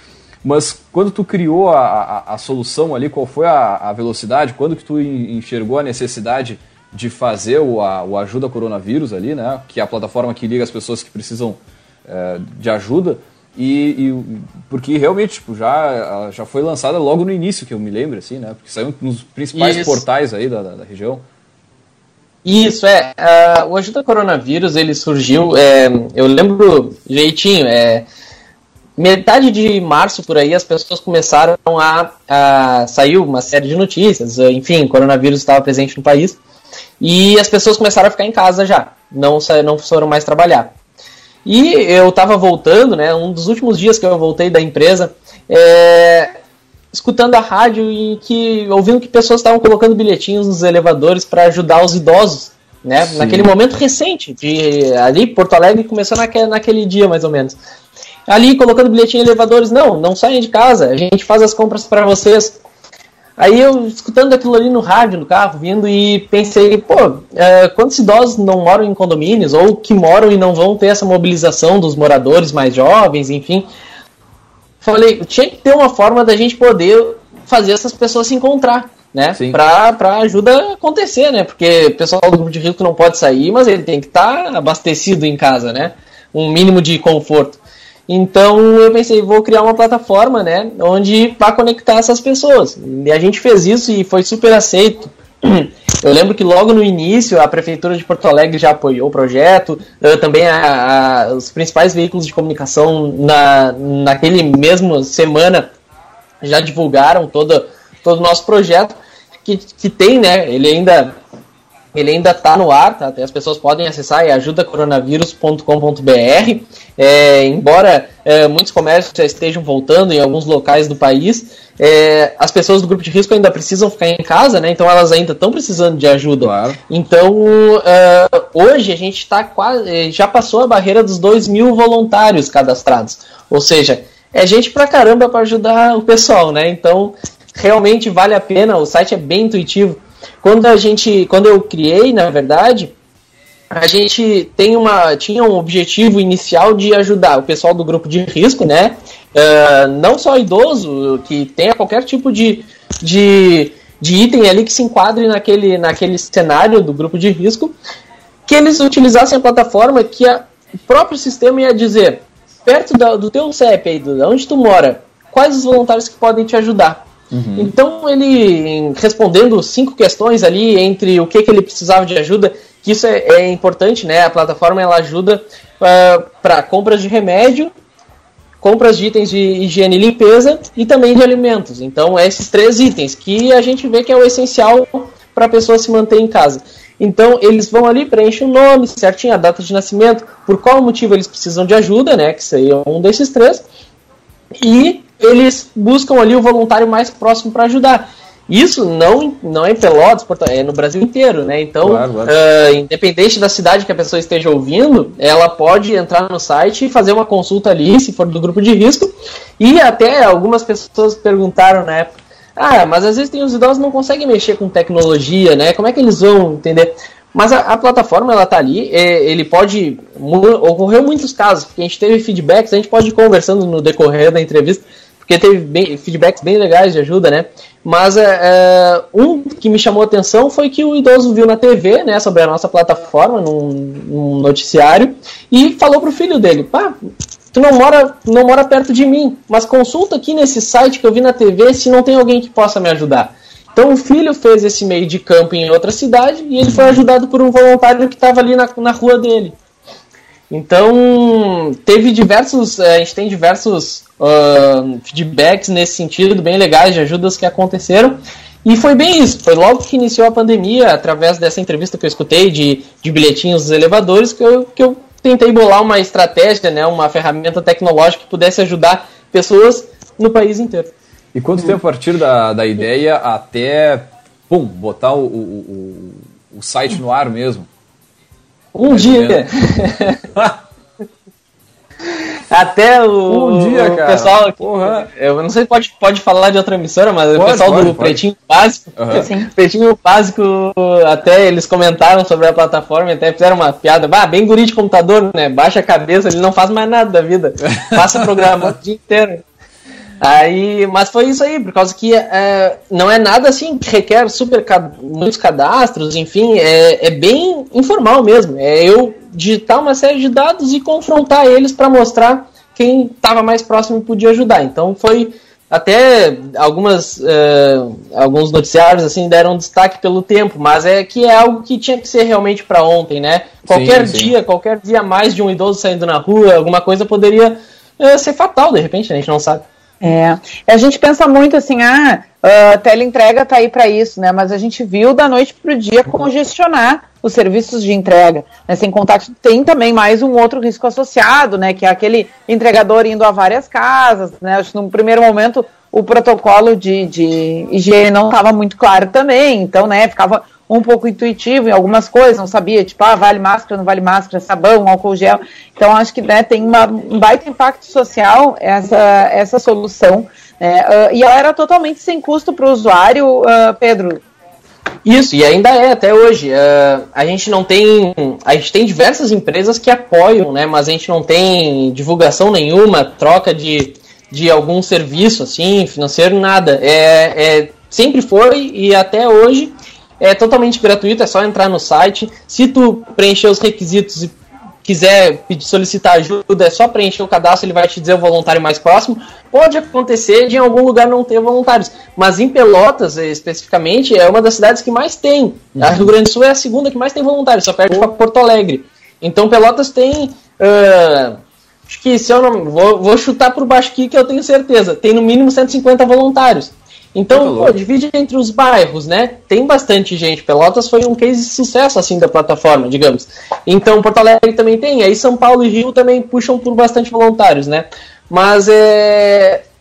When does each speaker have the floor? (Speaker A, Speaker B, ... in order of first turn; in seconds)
Speaker A: 0.4-21.2, 53.1-53.5, 126.4-126.8, 167.3-167.7, 201.8-202.3, 246.6-247.0, 271.3-277.7, 278.9-279.5, 280.4-280.6, 283.3-285.1, 287.4-288.2, 289.0-289.3, 297.9-298.2, 323.7-324.3, 395.8-396.1, 407.3-407.8
Speaker B: 19.5-20.0, 22.4-28.1, 29.0-36.4, 37.0-40.7, 41.5-46.3, 46.9-57.6, 58.3-62.6, 63.4-73.7, 74.8-105.7, 106.4-111.2, 111.9-142.9, 143.7-157.8, 158.5-177.7, 178.6-193.7, 194.6-236.9, 237.5-249.6, 250.5-270.9, 278.8-280.3, 282.5-299.4, 300.2-329.7, 365.1-419.6
Speaker C: 289.1-289.5, 330.0-364.2